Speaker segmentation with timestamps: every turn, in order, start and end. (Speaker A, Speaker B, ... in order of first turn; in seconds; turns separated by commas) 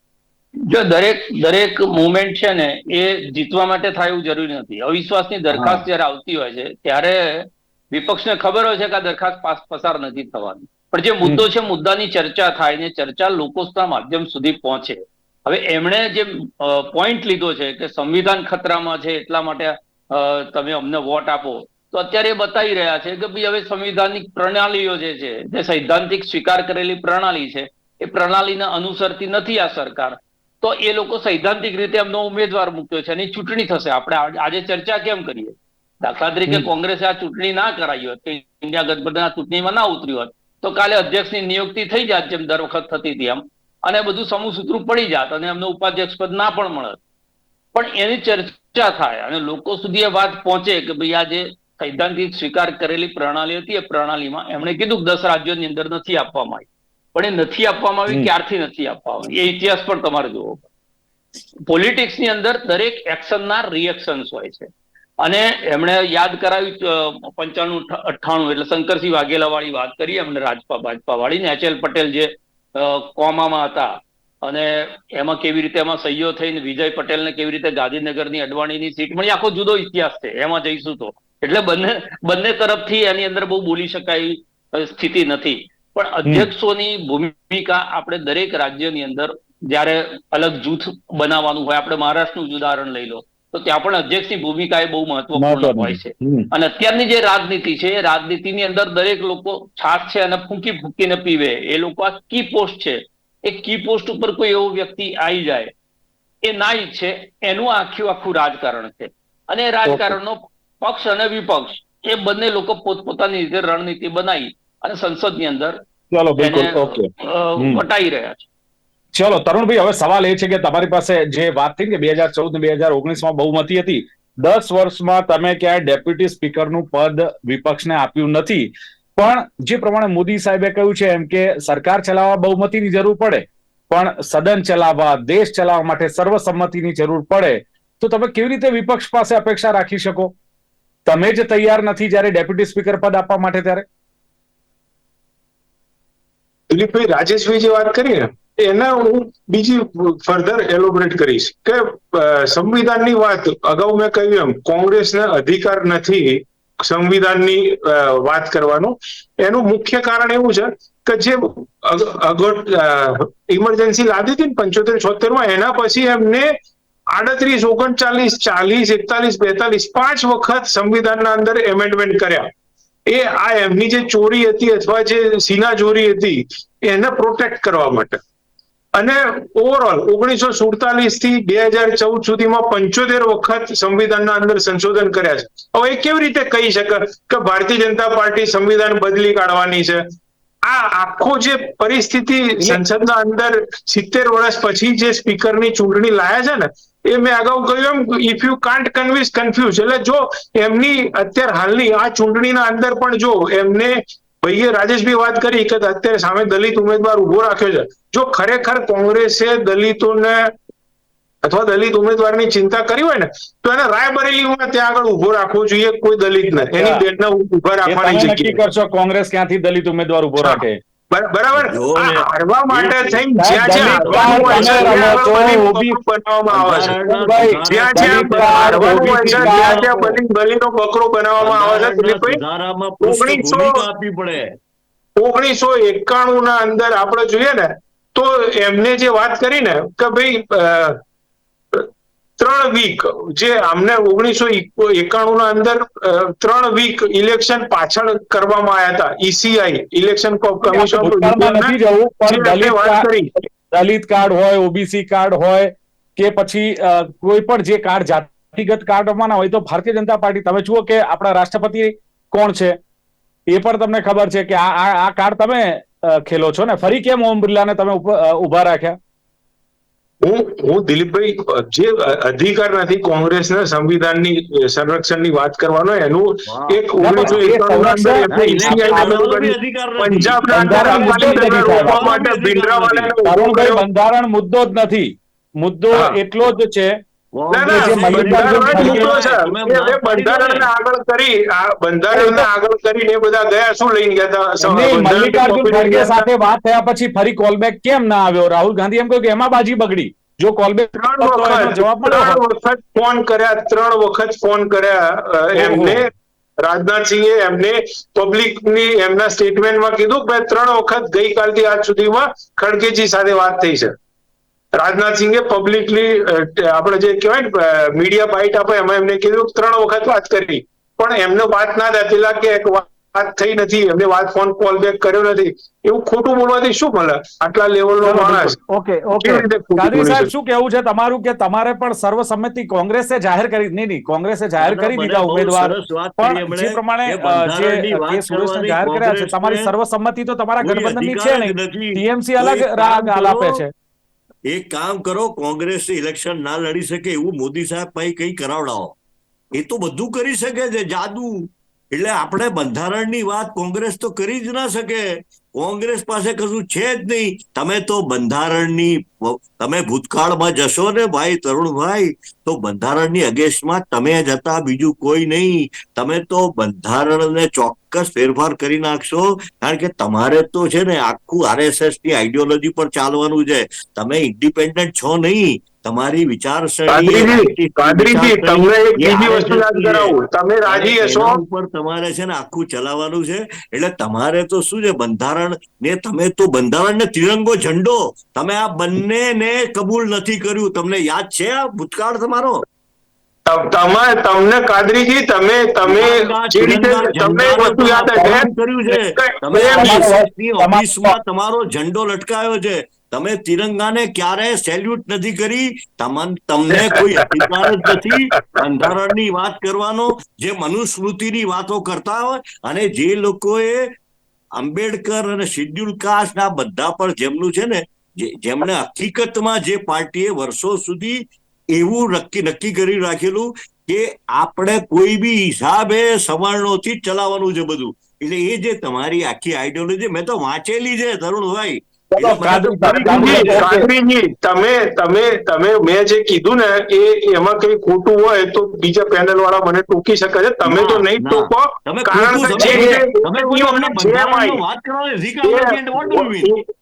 Speaker A: 0.7-47.0, Speaker B: 5.5-5.8, Speaker A: 47.7-60.6, Speaker A: 61.7-64.7, Speaker A: 65.2-73.9, Speaker A: 74.4-105.7, Speaker B: 95.4-96.5, Speaker A: 106.5-115.8, Speaker B: 109.9-110.2, Speaker B: 116.1-117.8, Speaker A: 116.4-118.4, Speaker B: 119.2-140.3, Speaker B: 141.1-143.8, Speaker C: 146.7-166.5, Speaker C: 167.1-172.5, Speaker C: 173.1-178.2, Speaker C: 178.9-190.1, Speaker C: 190.6-210.5, Speaker C: 211.4-218.6, Speaker B: 216.6-217.1, Speaker B: 217.9-220.8, Speaker C: 220.4-227.0, Speaker D: 221.6-223.2, Speaker B: 223.4-226.0, Speaker D: 223.9-225.2, Speaker D: 226.5-230.2, Speaker B: 226.8-229.8, Speaker C: 227.6-232.4, Speaker D: 231.4-234.5, Speaker C: 233.0-233.8, Speaker C: 235.2-241.0, Speaker C: 242.4-251.8, Speaker B: 250.6-262.8, Speaker C: 252.3-253.3, Speaker B: 263.5-269.0, Speaker C: 270.2-283.8, Speaker D: 276.5-277.4, Speaker B: 277.0-279.2, Speaker D: 278.3-283.2, Speaker B: 280.5-282.1, Speaker B: 283.2-287.0, Speaker D: 287.4-290.7, Speaker C: 287.5-296.3, Speaker B: 287.7-289.1, Speaker B: 292.1-292.5, Speaker B: 294.6-302.4, Speaker C: 301.0-306.1, Speaker B: 305.6-306.0, Speaker C: 306.6-313.9, Speaker C: 314.7-328.6, Speaker B: 328.0-343.7, Speaker C: 329.2-330.3, Speaker D: 334.6-339.7, Speaker D: 340.6-343.6, Speaker D: 344.5-349.0, Speaker D: 349.6-380.1, Speaker C: 376.9-381.4, Speaker D: 380.7-392.6, Speaker C: 393.5-400.1, Speaker D: 395.8-413.9, Speaker B: 399.8-401.2, Speaker C: 406.9-407.9, Speaker D: 414.6-433.7, Speaker B: 432.1-433.9, Speaker C: 432.9-444.6, Speaker D: 440.6-446.5, Speaker B: 442.6-443.0, Speaker C: 445.4-446.6